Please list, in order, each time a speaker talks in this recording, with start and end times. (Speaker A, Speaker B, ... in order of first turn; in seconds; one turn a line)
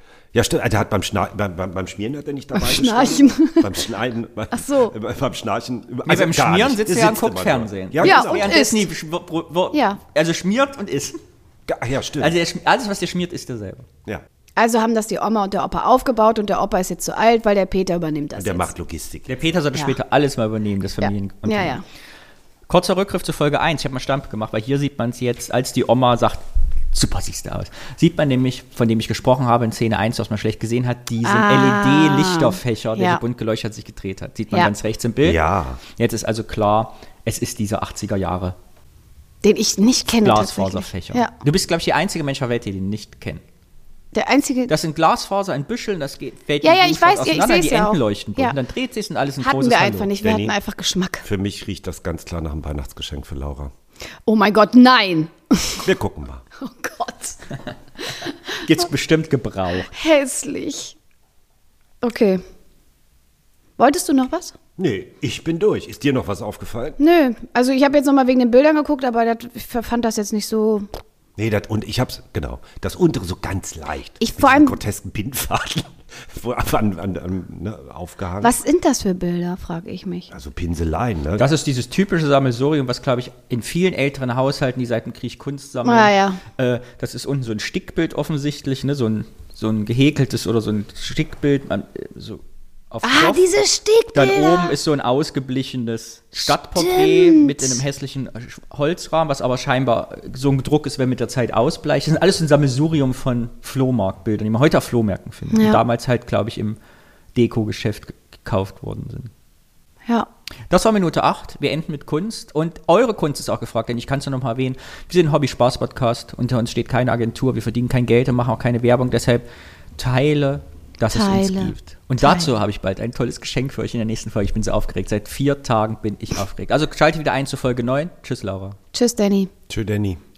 Speaker A: 0.3-8.6
Speaker B: 2.5-3.7
Speaker B: 4.5-4.9
Speaker C: 6.1-11.2
Speaker B: 8.0-8.9
Speaker B: 9.7-10.0
Speaker A: 11.7-12.3
Speaker C: 12.2-13.9
Speaker B: 14.6-18.7
Speaker A: 18.3-19.4
Speaker C: 19.3-21.8
Speaker B: 21.0-21.8
Speaker C: 22.7-38.5
Speaker B: 31.2-33.2
Speaker A: 35.2-35.8
Speaker B: 39.4-41.3
Speaker C: 40.2-43.4
Speaker B: 44.1-44.7
Speaker C: 44.7-50.1
Speaker B: 46.6-48.5
Speaker B: 49.4-51.2
Speaker A: 50.2-50.5
Speaker A: 51.2-53.7
Speaker B: 54.2-55.9
Speaker A: 55.8-56.4
Speaker B: 56.6-57.4
Speaker B: 58.0-58.6
Speaker C: 58.6-59.9
Speaker B: 59.9-61.0
Speaker B: 62.0-62.4
Speaker B: 63.8-64.5
Speaker A: 64.8-67.0
Speaker B: 67.0-70.9
Speaker A: 71.4-78.5
Speaker B: 74.2-74.8
Speaker B: 78.4-80.3
Speaker A: 80.3-81.5
Speaker C: 81.4-93.5
Speaker B: 85.8-86.4
Speaker B: 93.0-94.8
Speaker C: 94.1-106.8
Speaker B: 96.3-97.8
Speaker B: 105.5-105.8
Speaker C: 107.3-109.3
Speaker C: 110.7-119.5
Speaker C: 120.0-128.8
Speaker B: 121.1-122.5
Speaker B: 128.9-129.5
Speaker A: 129.7-130.2